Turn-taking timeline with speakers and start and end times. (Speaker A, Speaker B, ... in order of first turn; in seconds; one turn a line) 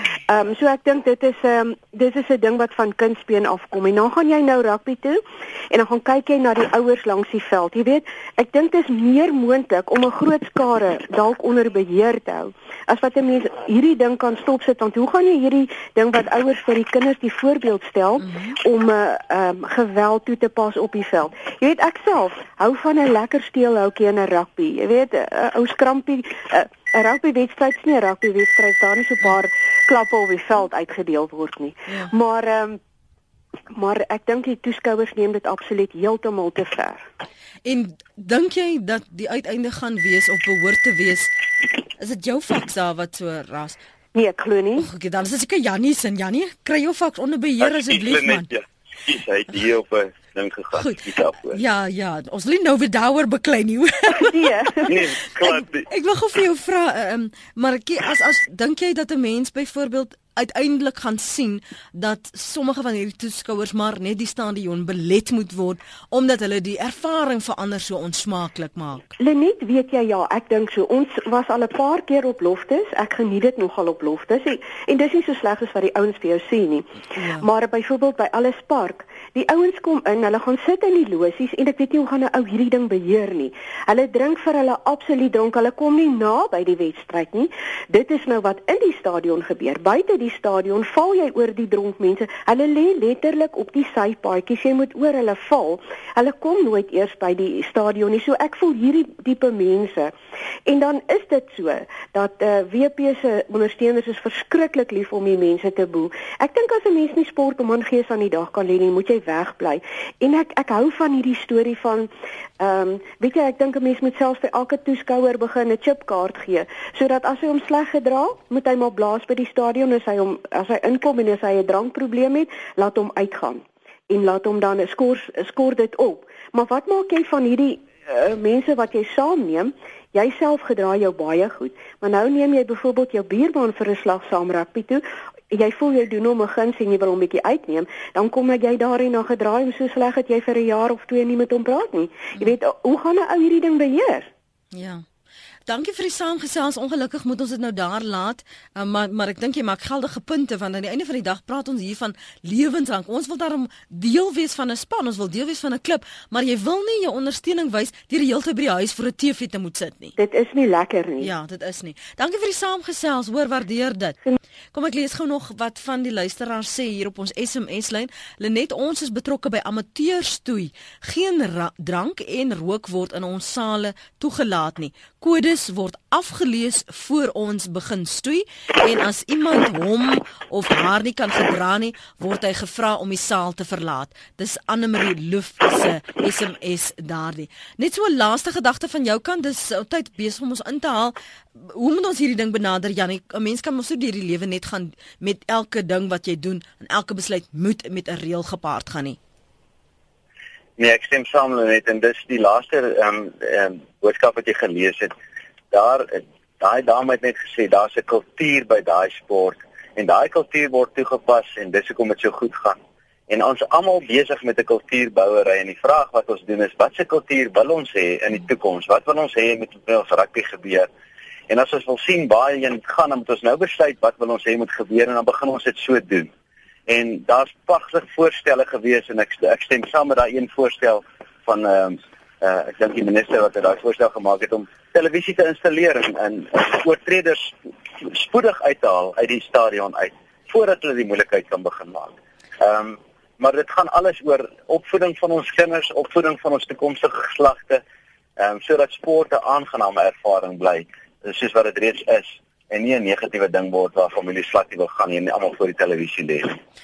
Speaker A: 0.3-32.8
Speaker B: 18.2-18.5
Speaker A: 33.7-37.1
Speaker B: 37.6-41.3
Speaker B: 42.0-43.8
Speaker A: 44.1-44.9
Speaker B: 44.8-48.5
Speaker C: 47.6-51.6
Speaker B: 50.7-69.1
Speaker A: 54.2-55.0
Speaker C: 54.9-55.9
Speaker A: 69.2-100.1
Speaker B: 77.2-77.4
Speaker A: 100.7-144.3
Speaker B: 144.7-145.0
Speaker B: 145.7-160.1
Speaker A: 160.2-161.3
Speaker B: 161.2-164.2
Speaker B: 164.7-199.2
Speaker C: 200.8-205.1
Speaker C: 205.7-212.8
Speaker C: 213.3-220.9
Speaker C: 221.5-226.3
Speaker C: 226.9-247.8
Speaker C: 248.4-256.6